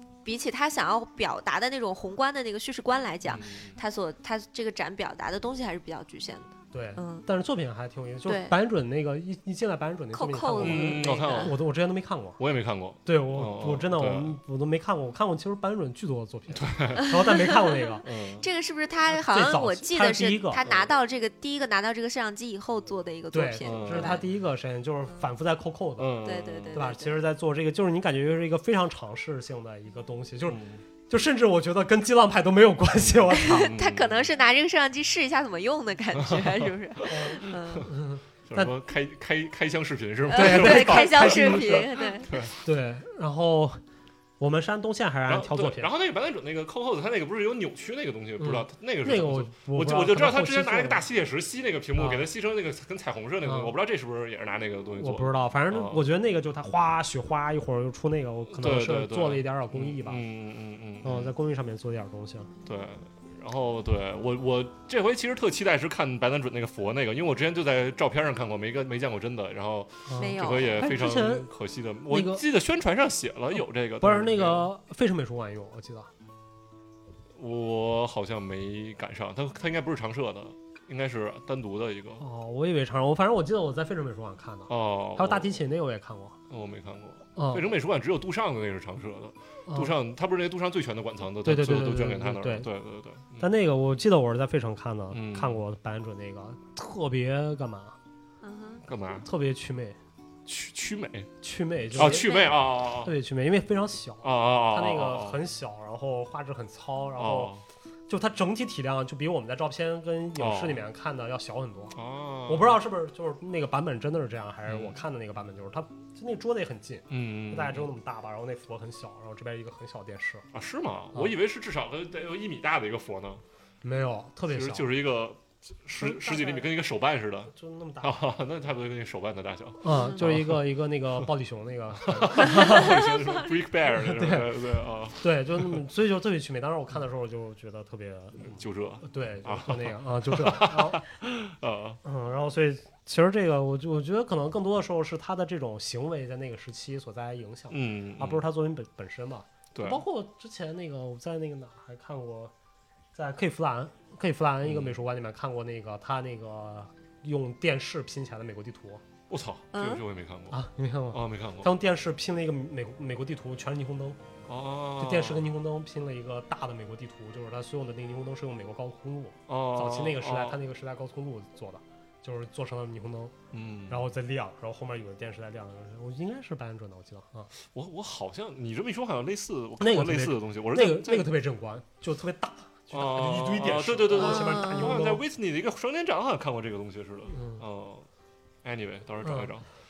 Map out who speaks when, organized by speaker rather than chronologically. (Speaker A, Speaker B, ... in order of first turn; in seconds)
Speaker A: 0.2-7.2, 8.2-8.5, 10.1-11.5, 17.0-24.2, 26.2-27.1, 33.3-37.9, 40.3-42.3, 70.2-70.8, 98.4-98.8, 102.0-102.5, 129.9-130.2, 132.6-133.6, 159.7-160.0, 184.1-184.9
Speaker B: 3.2-3.8, 10.6-11.6, 12.4-14.4, 16.5-17.1, 18.0-18.4, 20.6-20.9, 23.6-24.2, 26.0-26.8, 30.5-30.8, 33.0-34.3, 36.1-37.8, 38.5-42.5, 45.3-56.0, 58.5-61.3, 62.6-74.7, 77.4-82.2, 84.7-85.5, 86.5-93.5, 95.1-95.6, 98.8-99.2, 100.5-101.3, 101.9-103.1, 104.2-105.4, 107.2-107.6, 110.4-110.8, 111.9-112.8, 114.7-115.0, 117.1-117.9, 120.5-123.4, 124.5-130.6, 132.0-135.8, 138.4-142.0, 147.7-148.4, 149.7-150.0, 154.6-155.0, 159.3-160.6, 161.1-161.7, 164.5-165.4, 169.5-170.6, 173.5-174.0, 177.6-181.3, 182.9-188.1, 188.6-189.6
Speaker C: 6.7-12.4, 13.0-18.0, 19.1-20.6, 23.3-26.2, 26.7-33.7, 37.1-38.7, 40.3-41.9, 42.6-43.8, 44.4-45.9, 48.4-51.0, 52.0-52.2, 53.4-53.7, 55.0-60.2, 61.0-62.5, 70.1-71.5, 72.1-72.4, 74.0-76.1, 82.2-86.4, 87.3-87.7, 89.7-89.9, 91.4-92.7, 93.4-98.0, 99.2-100.0, 101.4-107.5, 108.1-112.0, 112.5-120.5, 123.8-124.9, 126.0-126.7, 127.5-128.2, 129.8-133.1, 133.9-134.6, 135.2-141.0, 142.0-152.5, 153.1-159.0, 160.5-164.2, 165.0-173.3, 173.9-177.5, 179.8-185.2, 187.3-187.6, 189.2-189.5